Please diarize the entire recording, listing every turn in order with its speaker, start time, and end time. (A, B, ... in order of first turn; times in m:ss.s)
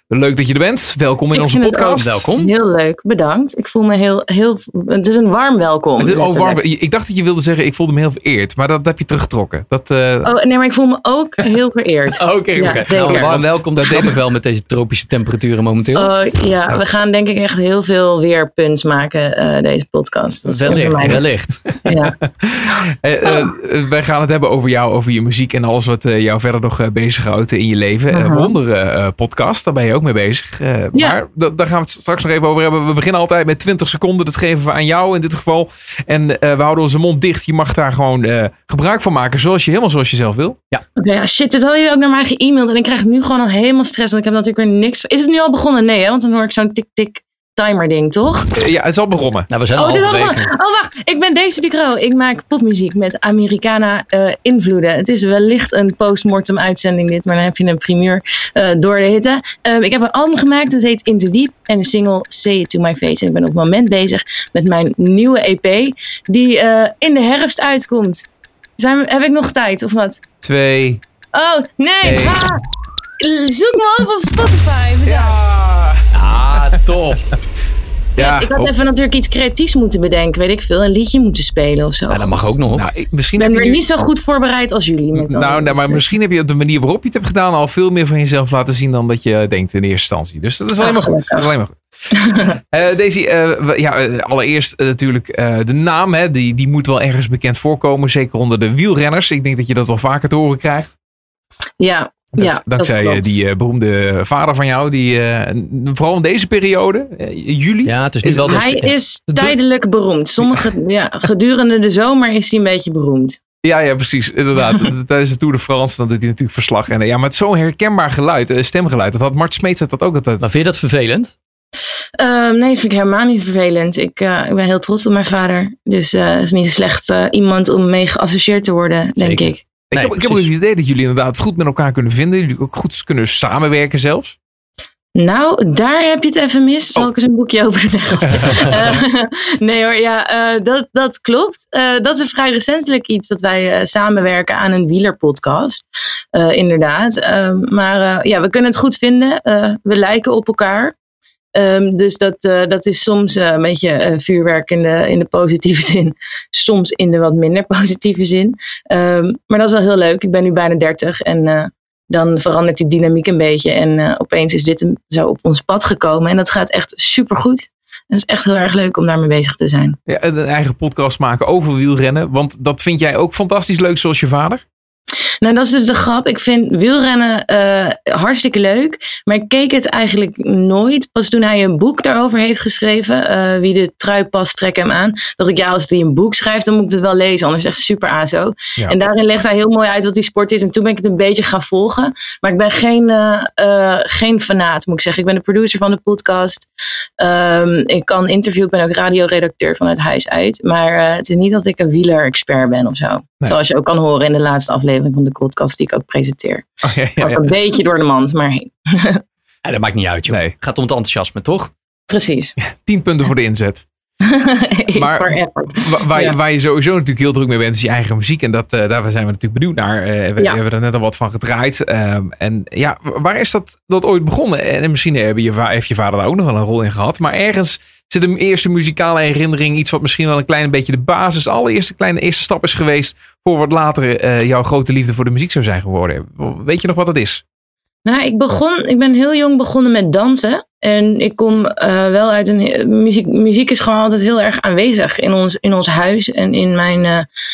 0:00.1-0:02.3 A
0:01.3-0:06.6 B
0:01.9-0:02.5 C
0:06.0-0:10.3 A
0:10.2-0:13.4 B
0:12.2-0:14.2 A
0:12.6-0:16.1 C
0:16.0-0:21.2 B
0:20.5-0:21.6 C
0:21.7-0:40.6 A
0:21.8-0:22.1 B
0:28.1-0:28.5 B
0:41.0-0:48.5 B
0:48.6-0:49.5 A
0:49.5-0:50.5 C
0:49.8-1:08.2 B
1:08.8-1:10.2 B
1:10.4-1:11.0 A
1:11.3-1:12.6 B
1:12.0-1:12.4 A
1:13.2-1:15.4 B
1:15.1-1:16.8 A
1:16.1-1:17.2 C
1:18.2-1:18.7 A
1:18.2-1:22.5 B
1:22.1-1:22.9 C
1:22.7-1:23.8 A
1:23.4-1:26.0 B
1:25.1-1:31.8 A
1:30.8-1:31.4 B
1:32.7-1:40.9 A
1:41.8-1:43.2 B
1:42.4-1:48.7 A
1:47.8-1:49.0 C
1:48.4-1:53.4 B
1:49.3-1:49.6 A
1:50.4-1:50.7 A
1:53.6-2:00.5 A
2:00.4-2:01.3 C
2:02.2-2:09.6 B
2:09.2-2:10.5 C
2:09.9-2:14.4 A
2:15.2-2:30.9 B
2:18.4-2:18.7 A
2:31.5-2:50.0 B
2:50.1-2:54.6 A
2:55.4-3:16.7 B
3:17.2-3:26.7 B
3:26.8-3:27.5 A
3:27.2-3:29.2 B
3:29.6-3:31.7 C
3:30.3-3:30.6 A
3:32.1-3:32.6 B
3:32.6-3:33.9 A
3:34.3-3:36.4 B
3:34.9-3:57.4 A
3:58.0-4:07.3 B